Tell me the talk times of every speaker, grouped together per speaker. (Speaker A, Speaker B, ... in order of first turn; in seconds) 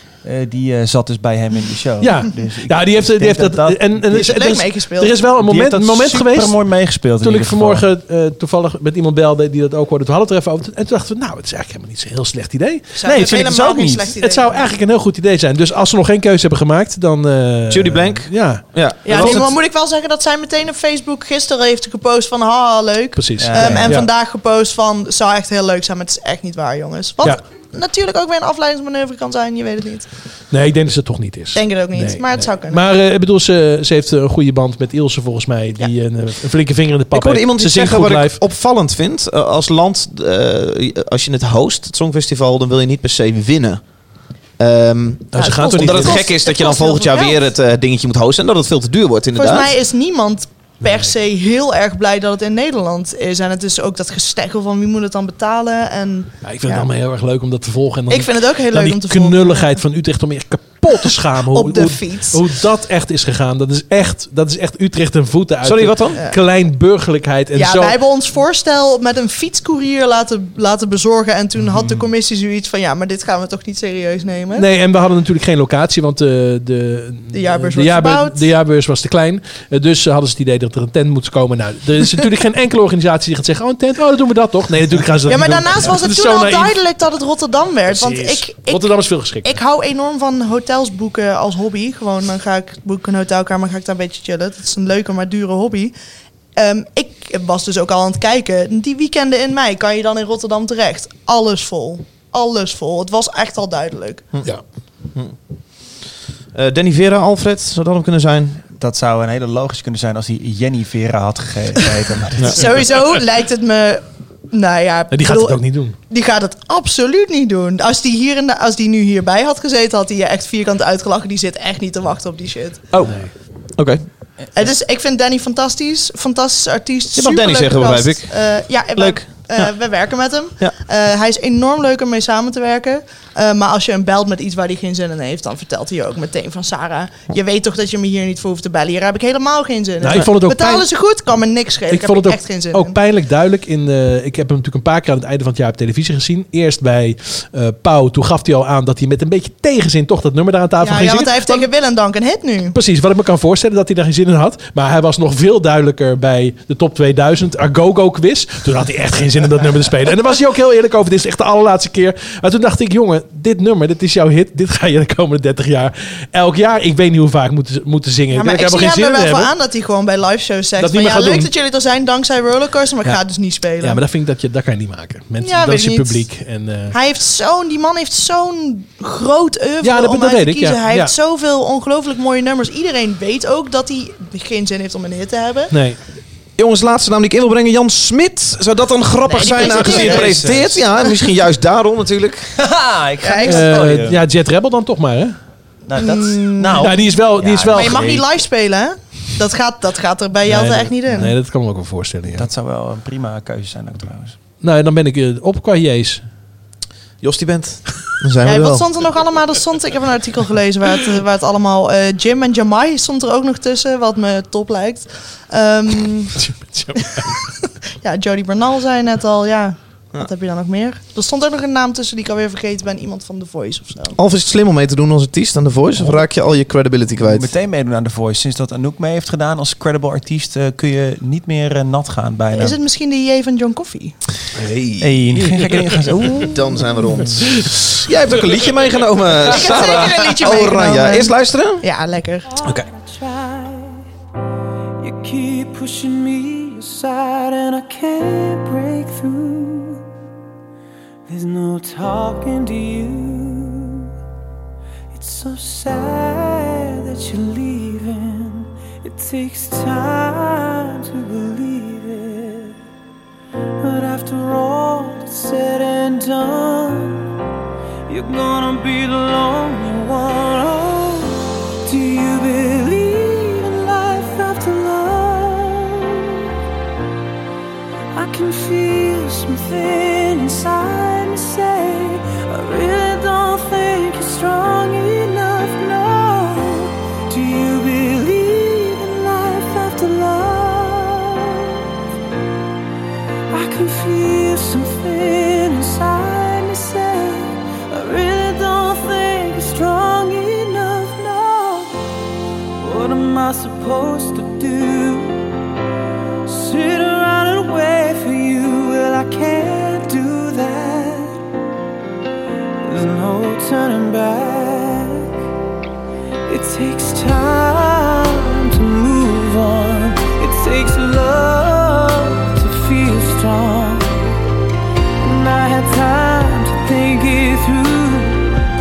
Speaker A: 0.2-4.0, 5.4-7.8, 13.0-14.1, 23.4-24.1, 108.8-112.8, 189.4-190.9, 192.5-194.2, 195.8-198.2, 202.3-204.3, 227.2-232.8, 235.0-236.7
Speaker B: 2.0-6.5, 7.2-13.0, 14.2-19.4, 23.1-24.1, 30.5-38.4, 45.3-46.2, 56.4-68.0, 74.5-86.7, 87.9-89.5, 115.1-116.0, 123.0-123.3, 140.0-140.8, 141.9-151.7, 152.7-169.5, 170.8-171.5, 173.8-176.9, 179.8-181.1, 185.7-186.0, 193.4-195.3, 196.8-198.2, 200.4-202.5, 204.6-206.2, 216.3-217.3, 235.5-236.0
Speaker C: 4.1-5.2, 12.9-14.7, 19.0-30.1, 31.5-32.8, 45.3-47.5, 49.3-56.9, 58.1-59.7, 61.4-62.4, 67.5-74.7, 77.3-78.5, 85.3-88.9, 89.4-95.9, 96.5-104.2, 112.5-122.8, 124.5-143.0, 150.8-152.8, 168.3-174.0, 175.4-176.2, 176.9-185.7, 189.3-190.4, 193.2-193.8, 195.9-196.9, 197.7-201.3, 208.4-216.4, 216.9-224.2, 232.5-234.1, 239.4-242.5
Speaker D: 17.7-19.5, 37.1-43.8, 44.6-49.7, 65.6-66.2, 106.5-108.6, 122.9-124.0, 127.1-128.3, 129.0-129.7, 186.6-192.5, 207.2-208.8, 224.2-227.5, 234.6-235.2, 236.3-241.8
Speaker E: 242.6-244.0, 245.0-250.0, 251.3-254.1, 255.1-262.8, 263.8-267.3, 268.1-276.2, 278.1-291.7, 293.5-301.9, 302.8-305.4, 306.4-311.4, 312.8-315.3, 316.5-324.2, 325.2-328.5